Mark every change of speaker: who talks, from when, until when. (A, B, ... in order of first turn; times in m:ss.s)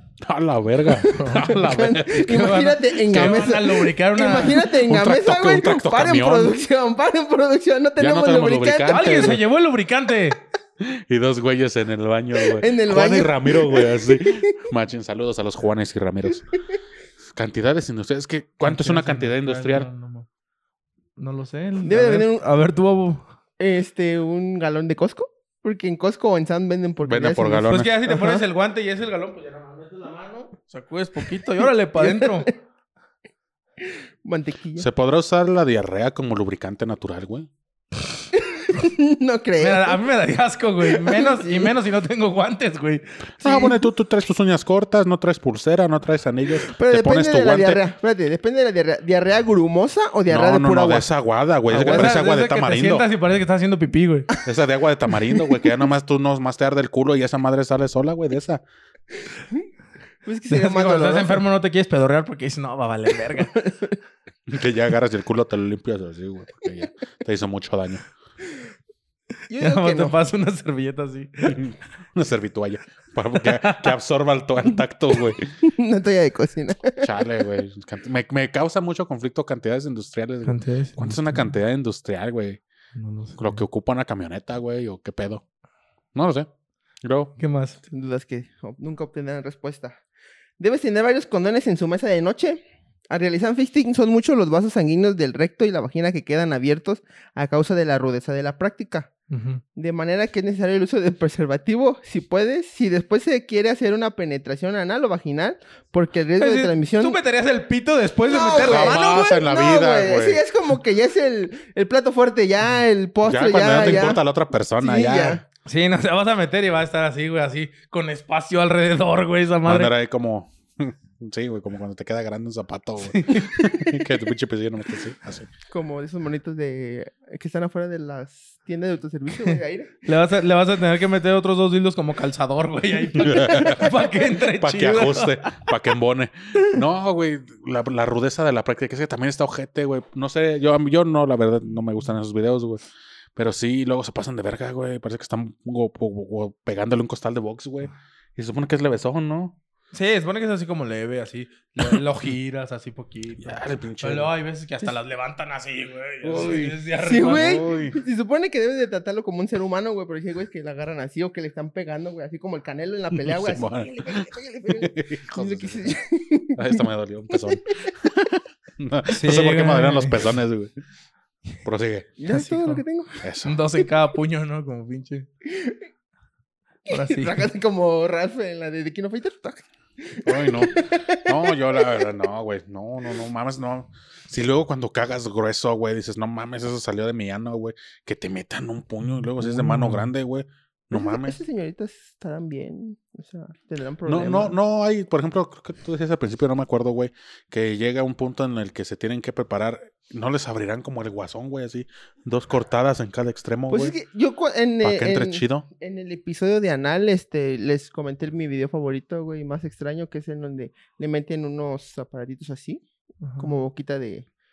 0:00.2-0:03.4 A
0:01.1-0:09.0 B
0:01.2-0:01.6 C
0:02.3-0:04.7 C
0:04.8-0:06.6 A
0:08.0-0:09.4 A
0:08.9-0:10.4 C
0:10.8-0:16.4 A
0:12.4-0:14.6 B
0:17.3-0:19.9 A
0:18.6-0:20.3 C
0:21.2-0:23.2 C
0:21.8-0:22.4 B
0:23.6-0:28.4 B
0:27.0-0:27.9 A
0:27.6-0:32.5 C
0:32.0-0:32.5 B
0:33.9-0:34.9 B
0:34.8-0:37.5 A
0:38.3-0:40.0 B
0:39.6-0:43.0 C
0:40.8-0:41.7 B
0:43.4-0:43.7 B
0:43.4-0:47.8 A
0:46.7-0:51.1 B
0:50.3-0:53.1 A
0:51.7-0:54.3 C
0:51.7-0:52.1 B
0:54.4-0:58.6 A
1:00.2-1:01.4 B
1:00.5-1:03.6 C
1:03.4-1:04.0 B
1:04.5-1:08.0 A
1:09.5-1:10.2 B
1:09.6-1:11.6 C
1:11.5-1:15.5 A
1:13.4-1:13.9 C
1:15.6-1:17.2 B
1:17.0-1:22.6 A
1:20.4-1:21.5 C
1:22.9-1:23.6 C
1:23.4-1:25.4 A
1:26.1-1:26.5 A
1:27.0-1:27.3 A
1:27.4-1:27.8 C
1:27.9-1:30.0 B
1:30.6-1:39.1 B
1:39.3-1:39.6 C
1:39.7-1:47.2 B
1:46.4-1:49.0 C
1:48.3-1:54.2 B
1:48.6-1:50.4 A
1:53.2-1:55.4 A
1:54.8-1:55.4 B
1:55.6-1:59.9 C
1:59.6-2:05.5 A
2:03.1-2:03.7 C
2:05.7-2:10.0 B
2:09.4-2:15.6 C
2:13.2-2:22.8 A
2:13.2-2:13.7 B
2:23.4-2:29.6 A
2:29.9-2:37.6 C
2:33.4-2:34.3 A
2:36.2-2:38.0 A
2:37.0-2:47.9 B
2:43.1-2:46.0 A
2:46.6-2:50.7 A
2:49.1-2:50.2 C
2:51.6-2:52.1 A
2:52.2-2:53.2 B
2:52.3-2:52.8 C
2:53.2-2:53.6 A
2:53.4-2:55.3 C
2:55.4-2:55.8 B
2:56.9-2:57.5 C
2:56.9-3:02.0 B
3:00.2-3:11.4 A
3:09.0-3:10.1 C
3:10.9-3:14.5 B
3:14.1-3:23.9 A
3:23.7-3:32.8 B
3:24.8-3:25.6 A
3:33.2-3:33.5 C
3:33.4-3:34.2 B